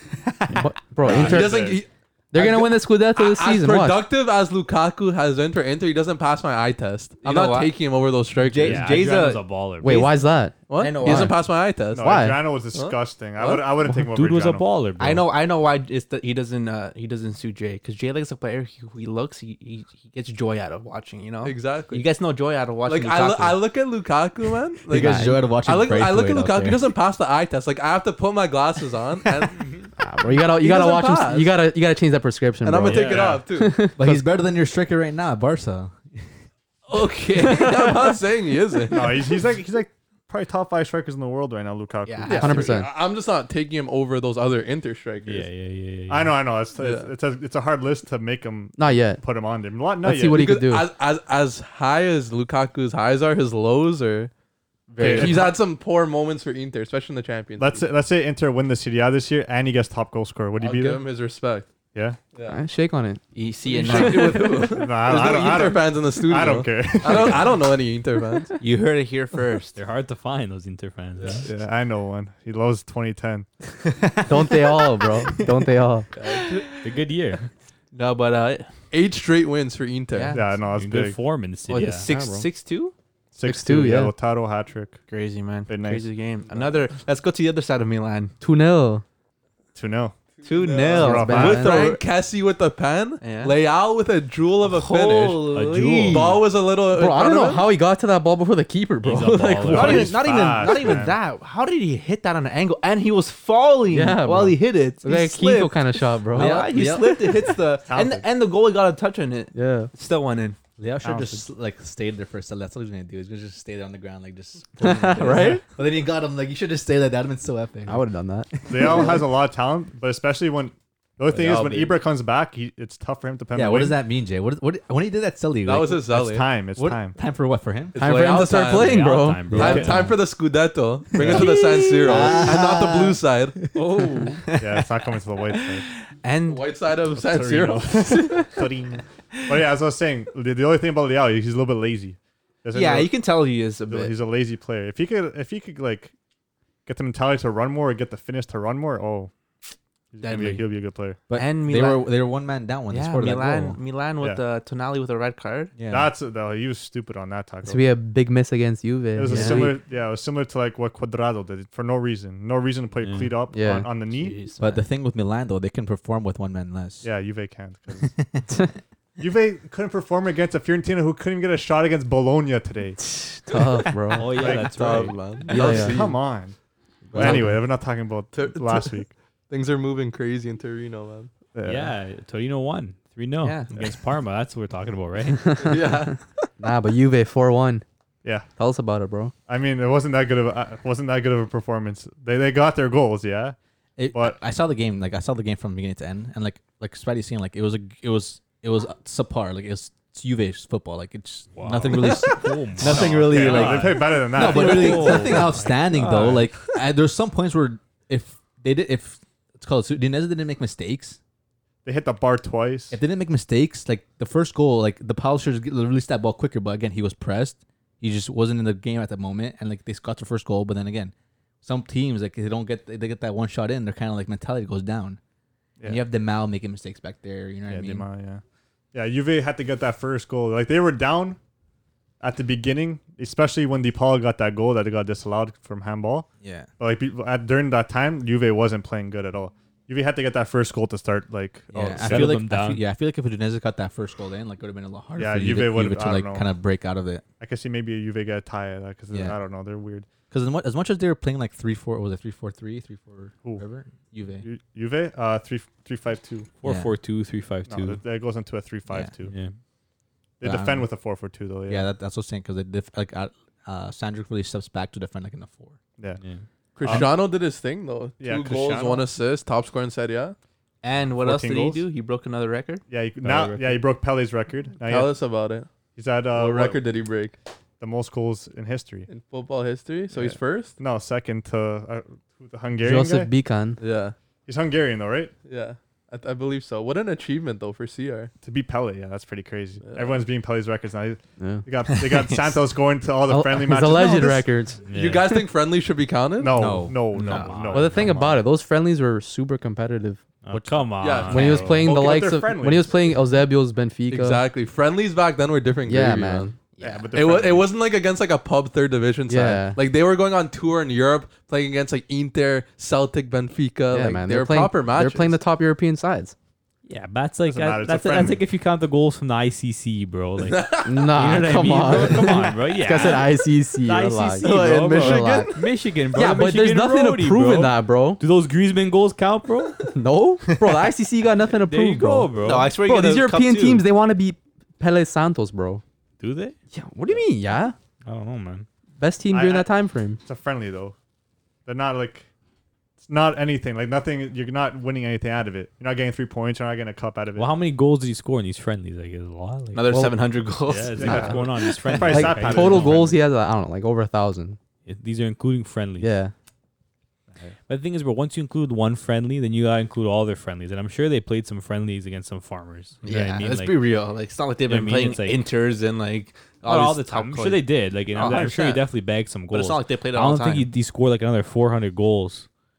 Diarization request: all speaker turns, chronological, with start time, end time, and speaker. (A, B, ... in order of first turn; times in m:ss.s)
0:00.5-0:01.7 A
0:01.0-0:01.8 B
0:01.0-0:09.0 C
0:02.3-0:04.0 A
0:07.2-0:07.7 D
0:08.5-0:09.4 E
0:08.6-0:10.2 F
0:08.8-0:09.4 D
0:09.8-0:11.4 A
0:10.7-0:13.7 C
0:10.8-0:11.3 D
0:11.9-0:14.6 B
0:12.0-0:12.4 A
0:13.9-0:15.2 F
0:15.0-0:23.7 D
0:21.4-0:22.0 C
0:22.9-0:29.7 C
0:24.9-0:26.8 E
0:25.0-0:25.4 A
0:30.0-0:34.2 A
0:30.3-0:31.5 C
0:32.6-0:33.8 C
0:32.8-0:33.4 F
0:33.0-0:33.4 B
0:34.0-0:36.3 E
0:36.9-0:39.4 C
0:36.9-0:37.9 D
0:38.9-0:42.6 B
0:42.0-0:42.8 D
0:42.2-0:45.5 C
0:42.4-0:42.9 A
0:45.2-0:46.3 F
0:46.1-0:50.4 B
0:46.8-0:47.1 C
0:48.8-0:49.2 A
0:50.0-0:50.9 A
0:50.3-0:54.3 C
0:55.0-0:55.5 A
0:55.0-0:57.8 C
0:55.0-0:55.5 B
0:57.6-1:01.1 B
1:00.6-1:01.7 C
1:01.9-1:02.2 B
1:02.3-1:02.6 C
1:02.5-1:03.2 A
1:03.3-1:04.7 D
1:03.6-1:08.6 C
1:03.8-1:04.6 A
1:04.7-1:07.6 B
1:08.6-1:09.8 D
1:09.8-1:11.4 F
1:11.2-1:11.5 C
1:11.4-1:13.5 B
1:14.2-1:16.1 A
1:16.1-1:16.6 C
1:16.2-1:16.9 D
1:16.8-1:17.5 F
1:17.9-1:18.8 D
1:18.9-1:20.4 C
1:20.1-1:20.4 D
1:20.3-1:21.2 B
1:20.7-1:22.1 F
1:21.7-1:22.9 D
1:21.9-1:22.4 B
1:23.3-1:25.0 B
1:23.4-1:24.1 A
1:25.1-1:28.3 D
1:25.7-1:26.1 B
1:26.4-1:26.7 C
1:28.4-1:29.0 A
1:29.7-1:30.1 B
1:30.4-1:35.5 C
1:30.4-1:32.0 D
1:30.9-1:31.8 B
1:30.9-1:31.9 A
1:33.2-1:33.6 D
1:34.6-1:36.4 D
1:35.5-1:36.4 F
1:36.1-1:37.7 C
1:36.9-1:40.0 A
1:39.0-1:41.0 F
1:39.6-1:50.6 D
1:39.7-1:41.2 B
1:43.9-1:46.7 A
1:46.3-1:47.5 E
1:47.8-1:48.2 B
1:49.5-1:49.9 A
1:50.8-1:58.0 E
1:51.0-1:51.4 B
1:54.8-1:55.6 A
1:55.2-1:55.6 C
1:57.9-1:59.0 A
1:58.6-1:59.2 E
1:58.6-2:04.0 B
2:01.3-2:02.0 C
2:03.5-2:06.0 E
2:05.6-2:06.5 C
2:06.1-2:07.2 B
2:06.7-2:08.0 E
2:07.9-2:13.6 C
2:08.0-2:09.5 A
2:08.6-2:10.1 F
2:09.5-2:10.2 E
2:09.6-2:10.0 B
2:11.2-2:11.6 B
2:11.6-2:12.2 D
2:12.0-2:13.2 E
2:13.8-2:14.6 D
2:14.6-2:15.8 B
2:15.9-2:16.7 D
2:16.4-2:18.5 C
2:17.1-2:23.1 B
2:18.2-2:18.6 D
2:22.7-2:24.1 D
2:23.9-2:26.1 B
2:26.8-2:29.3 B
2:30.1-2:31.2 B
2:30.2-2:30.6 D
2:31.3-2:32.1 D
2:31.3-2:33.8 E
2:32.9-2:35.7 D
2:35.8-2:36.1 E
2:35.9-2:37.8 B
2:37.6-2:39.8 A
2:39.1-2:44.4 B
2:39.3-2:39.6 D
2:43.0-2:43.3 F
2:43.5-2:43.9 A
2:44.1-2:44.8 D
2:44.6-2:47.1 E
2:47.0-2:48.2 B
2:48.0-2:48.5 E
2:49.2-2:53.0 B
2:53.2-2:54.4 A
2:54.1-2:55.4 F
2:54.2-2:56.6 B
2:54.3-2:56.2 C
2:55.5-2:56.0 A
2:57.1-2:59.1 B
2:57.2-2:57.6 C
2:58.3-3:01.3 C
3:01.5-3:01.9 B
3:01.6-3:05.6 F
3:03.4-3:03.8 D
3:05.4-3:05.8 A
3:05.6-3:06.2 C
3:06.6-3:07.8 A
3:08.6-3:09.3 A
3:09.5-3:13.6 B
3:14.0-3:31.2 E
3:14.1-3:14.4 B
3:21.6-3:26.5 F
3:22.8-3:25.3 B
3:31.8-3:33.0 B
3:32.9-3:45.2 E
3:45.8-3:48.0 E
3:47.7-3:48.4 B
3:48.9-3:51.4 B
3:52.2-4:02.4 B
3:56.4-3:56.7 E
4:01.7-4:07.2 E
4:02.0-4:02.8 F
4:05.2-4:06.5 B
4:07.4-4:10.1 B
4:09.1-4:09.4 E
4:10.3-4:14.5 E
4:14.4-4:16.5 B
4:16.6-4:18.0 F
4:16.6-4:16.9 E
4:17.7-4:19.3 B
4:19.2-4:19.5 F
4:20.4-4:21.9 B
4:20.4-4:20.9 E
4:21.7-4:25.8 E
4:26.8-4:30.4 C
4:26.8-4:27.2 B
4:28.2-4:29.0 B
4:30.8-4:32.8 D
4:31.2-4:31.8 B
4:32.9-4:35.2 B
4:33.2-4:33.8 F
4:34.8-4:35.7 C
4:35.9-4:36.8 B
4:36.3-4:37.4 C
4:37.8-4:39.1 B
4:39.1-4:40.8 C
4:40.1-4:43.3 B
4:42.8-4:43.8 A
4:43.8-4:44.1 C
4:44.4-4:45.3 B
4:45.4-4:48.3 C
4:48.4-4:54.5 B
4:49.8-4:50.2 C
4:51.4-4:51.6 A
4:53.3-4:54.9 A
4:54.9-4:55.2 F
4:54.9-4:56.6 C
4:56.4-4:58.4 B
4:56.5-4:57.2 E
4:57.1-4:57.6 D
4:57.2-4:58.0 F
4:57.7-5:00.2 A
5:00.4-5:01.9 F
5:01.0-5:01.8 C
5:01.3-5:04.4 A
5:01.3-5:03.1 B
5:04.1-5:06.5 C
5:05.9-5:06.5 A
5:06.8-5:07.1 D
5:06.8-5:07.7 B
5:07.1-5:15.4 C
5:09.3-5:09.8 A
5:13.9-5:16.3 A
5:16.8-5:29.8 F
5:17.4-5:18.4 B
5:20.4-5:21.2 C
5:20.8-5:25.5 A
5:24.4-5:25.6 C
5:26.1-5:28.2 A
5:29.9-5:35.8 A
5:31.5-5:32.7 F
5:32.4-5:33.8 D
5:36.2-5:36.6 F
5:36.7-5:37.7 A
5:38.0-5:38.7 F
5:39.0-5:40.2 A
5:39.3-5:39.7 B
5:40.2-5:40.9 B
5:41.6-5:42.3 B
5:43.0-5:47.5 B
5:47.4-5:50.1 F
5:49.7-5:51.4 D
5:50.7-5:53.1 F
5:50.9-5:53.2 B
5:52.0-5:54.6 A
5:54.8-5:56.1 F
5:56.0-5:56.3 A
5:57.7-6:03.8 F
6:03.0-6:08.9 D
6:04.7-6:05.4 F
6:06.6-6:12.5 F
6:09.5-6:10.7 D